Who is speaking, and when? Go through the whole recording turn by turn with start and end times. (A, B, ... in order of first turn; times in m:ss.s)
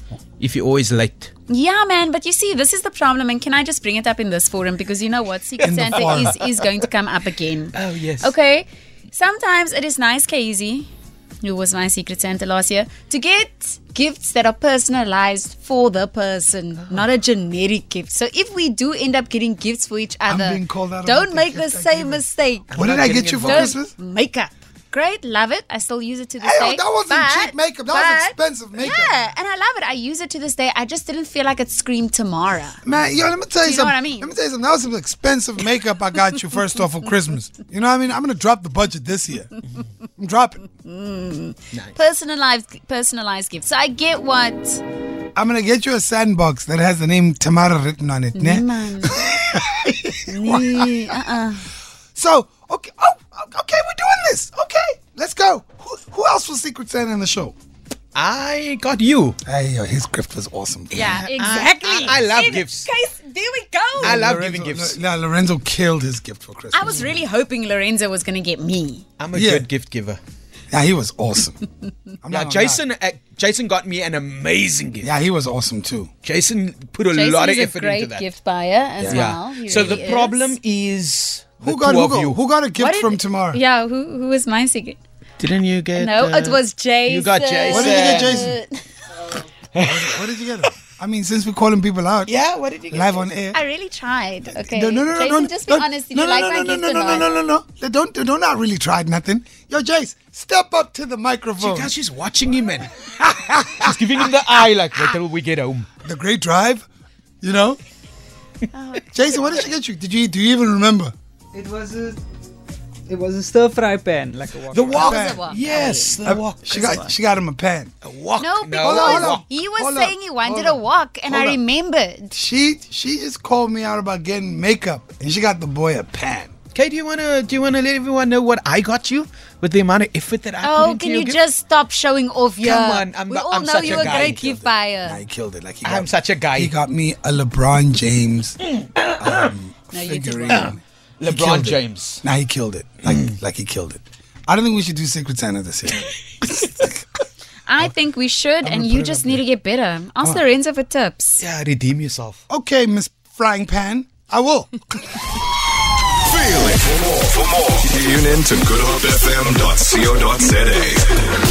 0:00.4-0:01.3 A
0:01.5-0:10.9 B
0:05.6-0:06.4 C
0:05.9-0:06.3 A
0:07.7-0:08.3 A
0:11.4-0:32.8 B
0:20.2-0:23.9 C
0:22.7-0:23.7 A
0:26.4-0:29.1 C
0:32.8-0:39.6 C
0:33.6-0:34.3 B
0:40.2-0:40.7 C
0:40.8-0:44.8 B
0:45.4-0:51.1 C
0:48.3-0:49.3 B
0:50.3-0:51.7 B
0:52.1-0:57.5 C
0:58.1-0:59.4 A
0:59.4-1:01.2 C
1:00.9-1:02.9 A
1:00.9-1:04.2 B
1:04.0-1:07.2 C
1:04.0-1:05.0 A
1:06.7-1:09.0 B
1:09.2-1:10.2 A
1:09.3-1:09.7 C
1:10.7-1:11.6 C
1:12.2-1:12.8 C
1:12.3-1:15.1 A
1:15.0-1:16.1 C
1:16.2-1:18.3 A
1:17.1-1:20.5 B
1:19.0-1:20.1 C
1:19.0-1:22.4 A
1:21.6-1:23.6 C
1:22.8-1:25.0 B
1:25.4-1:28.5 A
1:25.9-1:28.9 B
1:27.7-1:28.5 C
1:29.8-1:30.2 A
1:29.8-1:32.3 C
1:32.2-1:33.3 A
1:32.9-1:33.6 C
1:33.5-1:37.4 B
1:34.5-1:41.9 C
1:41.6-1:42.9 A
1:43.0-1:44.0 C
1:43.8-1:45.9 A
1:46.0-1:46.8 C
1:47.4-1:47.8 C
1:48.7-1:49.7 B
1:49.1-1:51.1 C
1:51.5-1:52.2 D
1:53.1-1:55.0 D
1:54.6-1:56.6 A
1:54.9-1:57.1 B
1:54.9-1:55.4 C
1:56.2-1:57.9 C
1:58.0-1:59.4 A
1:58.4-2:02.3 B
1:58.8-2:01.6 C
2:02.3-2:06.5 C
2:06.7-2:11.4 A
2:10.6-2:15.2 B
2:12.6-2:14.4 A
2:13.8-2:18.6 C
2:15.8-2:16.7 A
2:19.0-2:19.5 A
2:19.2-2:26.9 C
2:19.9-2:20.8 B
2:20.5-2:22.2 A
2:27.7-2:31.4 B
2:28.6-2:29.4 C
2:31.4-2:32.4 A
2:32.5-2:35.2 C
2:36.3-2:41.2 E